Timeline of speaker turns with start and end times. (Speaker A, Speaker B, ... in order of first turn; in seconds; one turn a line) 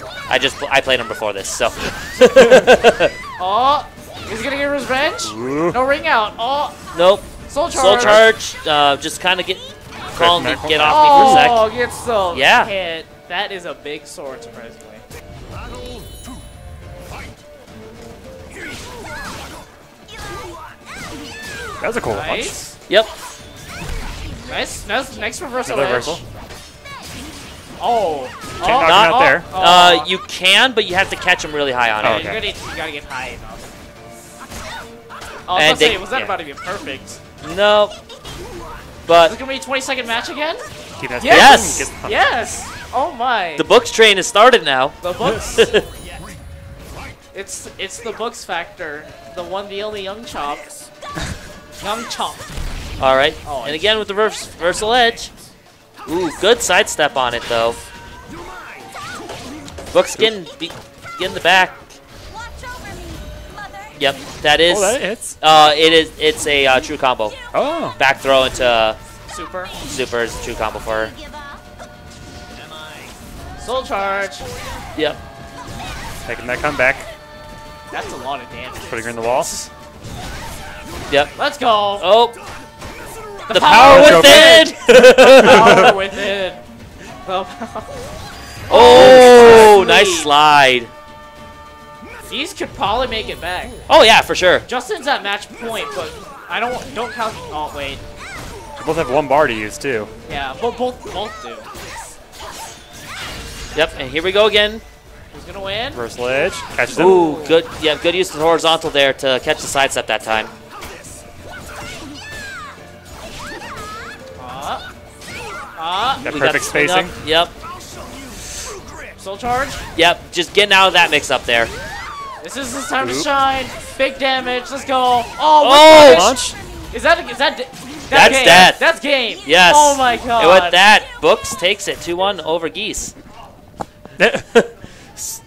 Speaker A: 0.3-3.1
Speaker B: 3.4-6.8
Speaker C: 5.2-5.8
Speaker A: 6.9-11.6
Speaker B: 7.4-8.3
Speaker C: 7.9-8.2
Speaker C: 10.1-11.5
Speaker B: 10.9-15.0
Speaker A: 12.3-12.7
Speaker C: 21.8-22.6
Speaker B: 22.1-22.7
Speaker A: 22.9-23.1
Speaker B: 24.5-26.2
Speaker C: 25.7-26.2
Speaker B: 27.8-30.1
Speaker C: 28.6-29.5
Speaker A: 28.8-32.3
Speaker C: 32.0-32.4
Speaker B: 32.0-33.7
Speaker B: 35.5-37.2
Speaker A: 35.5-36.1
Speaker A: 37.4-38.0
Speaker A: 39.1-39.4
Speaker B: 39.2-40.6
Speaker C: 41.0-42.2
Speaker B: 41.2-43.6
Speaker A: 41.3-41.9
Speaker A: 43.6-45.0
Speaker B: 45.0-45.7
Speaker A: 45.5-45.9
Speaker B: 47.3-50.7
Speaker B: 51.8-52.5
Speaker A: 53.0-55.3
Speaker B: 53.4-53.9
Speaker A: 56.0-57.8
Speaker A: 59.9-61.9
Speaker A: 64.0-67.4
Speaker C: 64.7-65.4
Speaker C: 67.5-68.0
Speaker A: 68.0-69.0
Speaker B: 69.3-69.7
Speaker A: 69.8-71.2
Speaker B: 73.6-74.5
Speaker C: 76.2-77.1
Speaker B: 77.9-79.7
Speaker C: 78.8-79.5
Speaker B: 81.3-82.1
Speaker A: 82.0-82.4
Speaker B: 83.5-86.6
Speaker A: 83.5-85.8
Speaker C: 83.7-84.6
Speaker C: 85.5-85.9
Speaker B: 87.2-88.0
Speaker B: 88.7-90.3
Speaker A: 88.7-90.9
Speaker B: 92.3-93.8
Speaker A: 93.9-94.7
Speaker B: 94.7-98.0
Speaker C: 98.8-100.1
Speaker B: 100.3-101.7
Speaker A: 103.7-104.8
Speaker B: 105.3-106.0
Speaker C: 105.9-107.3
Speaker B: 106.9-107.6
Speaker A: 106.9-110.5
Speaker B: 114.4-114.8
Speaker B: 115.8-116.2
Speaker C: 116.2-117.1
Speaker A: 116.2-117.5
Speaker B: 119.2-119.8
Speaker A: 119.9-121.7
Speaker B: 122.4-126.4
Speaker C: 123.0-123.3
Speaker A: 125.6-126.3
Speaker C: 126.0-126.6
Speaker B: 126.9-130.8
Speaker A: 128.1-128.8
Speaker A: 129.4-133.2
Speaker C: 134.2-134.5